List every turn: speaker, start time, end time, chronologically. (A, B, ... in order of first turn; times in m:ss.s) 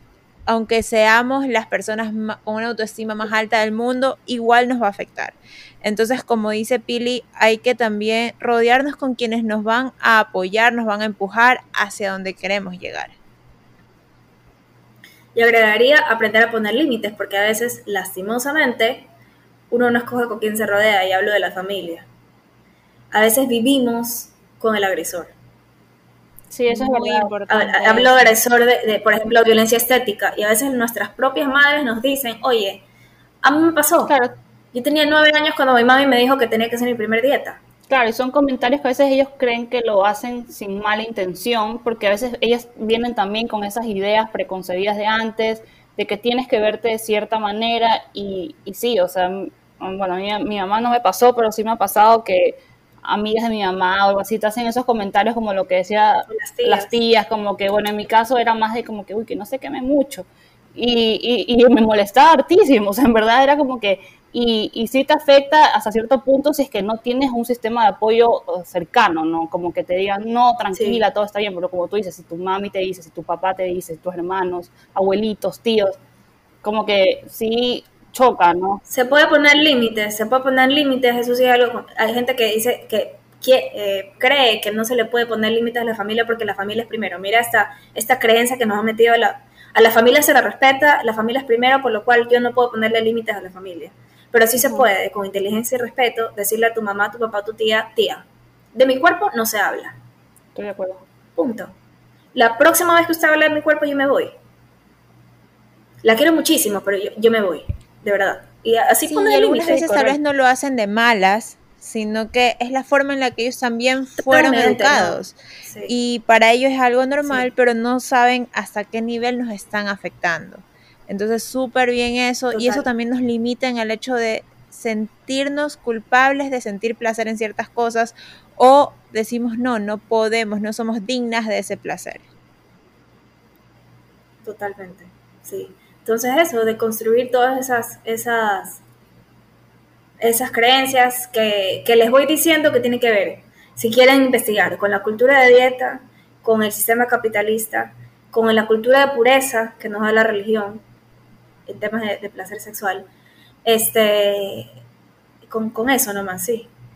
0:00.5-0:13.2 A
0:15.4-0:19.1 B
0:19.7-0:22.1 B
0:23.1-0:25.3 B
0:26.5-0:27.4 C
0:26.7-0:28.3 A
0:27.5-0:32.8 B
0:33.4-0:34.2 B
0:34.1-0:34.4 C
0:34.7-0:37.6 B
0:37.9-1:16.0 C
0:56.3-0:57.0 B
1:10.7-1:11.0 B
1:16.6-1:18.8 C
1:18.9-1:40.0 B
1:40.6-1:41.0 C
1:41.4-1:41.7 B
1:42.4-1:44.4 B
1:46.0-1:50.2 B
1:49.1-2:12.2 A
1:54.2-1:55.9 B
1:57.2-1:57.5 B
2:02.5-2:02.9 B
2:14.4-2:18.8 B
2:20.2-2:30.8 B
2:31.7-2:33.1 B
2:33.6-2:34.7 B
2:35.5-2:36.7 B